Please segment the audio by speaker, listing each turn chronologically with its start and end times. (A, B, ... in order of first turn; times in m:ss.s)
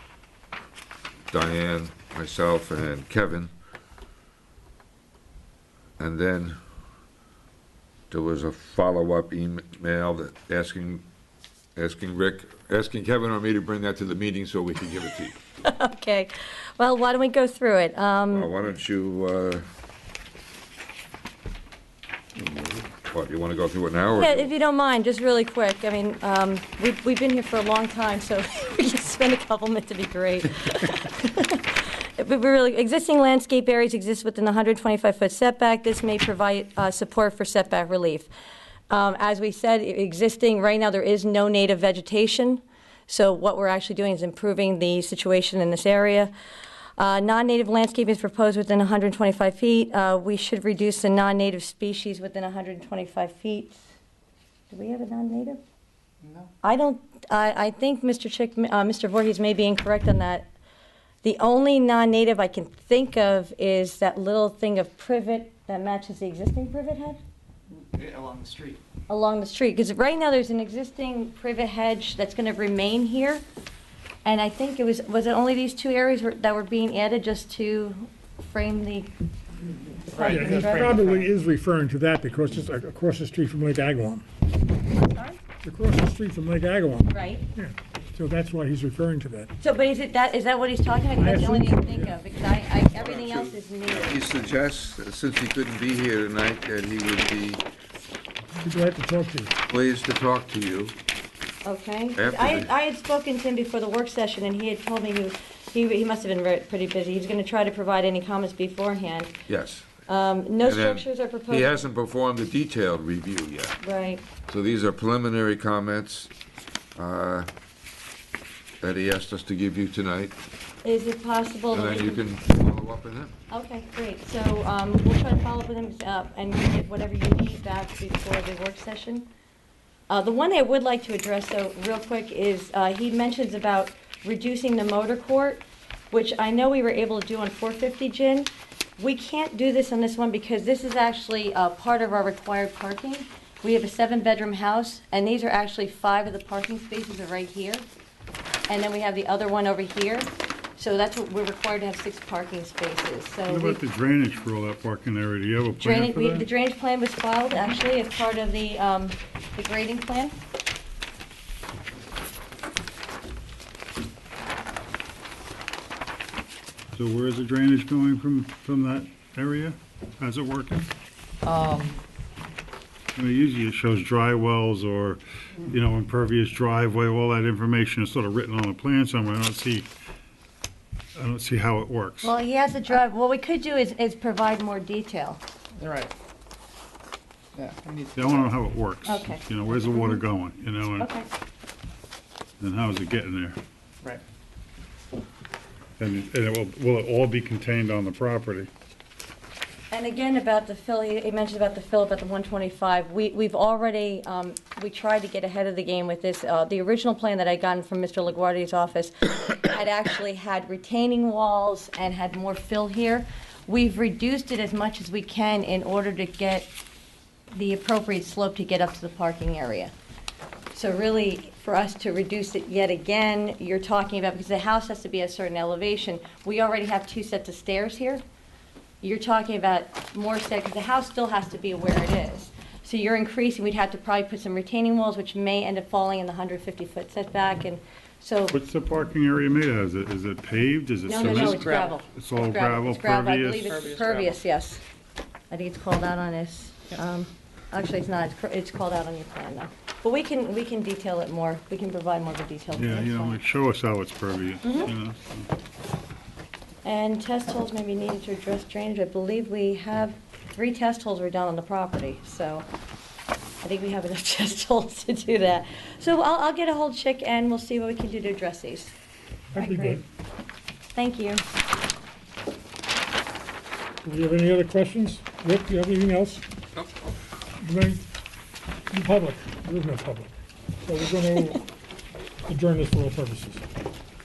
0:01.3-0:03.5 A
0:06.0-0:06.6 A
0:08.1-0:11.0 A
0:11.8-0:15.4 A
0:15.6-0:18.5 B
0:18.3-0:19.6 A
0:23.0-0:24.5 A
0:24.1-0:38.3 B
0:38.9-0:46.3 B
0:47.0-0:53.8 B
0:54.7-0:55.6 B
0:56.2-0:56.5 C
0:56.6-1:00.5 B
1:01.2-1:07.2 B
1:07.9-1:08.8 C
1:09.1-1:13.4 B
1:14.2-1:19.1 B
1:20.1-1:20.9 B
1:20.1-1:21.3 C
1:20.2-1:24.2 D
1:25.0-1:25.4 B
1:25.6-1:29.5 D
1:27.1-1:27.4 B
1:29.6-1:34.2 B
1:31.2-1:32.1 D
1:33.0-1:37.6 A
1:38.6-1:39.5 D
1:39.7-1:40.9 A
1:41.6-1:49.3 B
1:42.2-1:42.7 A
1:49.5-1:49.9 A
1:50.1-1:51.8 B
1:50.6-1:53.7 A
1:53.8-1:54.2 B
1:54.5-1:56.3 A
1:57.0-1:57.5 A
1:58.8-2:00.4 A
2:00.8-2:02.2 B
2:01.7-2:03.3 A
2:03.5-2:09.3 B
2:10.1-2:27.8 B
2:28.7-2:33.8 B
2:33.5-2:36.5 E
2:35.8-2:40.3 B
2:46.9-2:50.9 E
2:51.4-2:52.0 C
2:53.2-2:59.9 E
3:01.1-3:02.3 E
3:02.2-3:05.4 B
3:05.8-3:06.1 C
3:07.5-3:08.5 C
3:08.1-3:11.1 E
3:09.0-3:10.2 B
3:11.0-3:11.3 B
3:12.6-3:13.6 E
3:16.0-3:18.7 E
3:19.9-3:36.7 B
3:37.5-3:39.9 B
3:40.7-3:48.2 B
3:49.0-3:58.6 B
3:58.5-4:03.7 E
4:01.1-4:04.8 B
4:01.2-4:01.9 C
4:03.6-4:04.4 C
4:05.5-4:13.4 B
4:12.8-4:15.5 E
4:14.6-4:14.9 B
4:16.8-4:22.6 B
4:23.6-4:28.9 B
4:29.5-4:30.0 D
4:29.6-4:30.0 B
4:30.9-4:31.4 B
4:34.0-4:36.4 D
4:37.6-4:38.0 D
4:38.9-4:41.6 D
4:42.4-4:43.6 D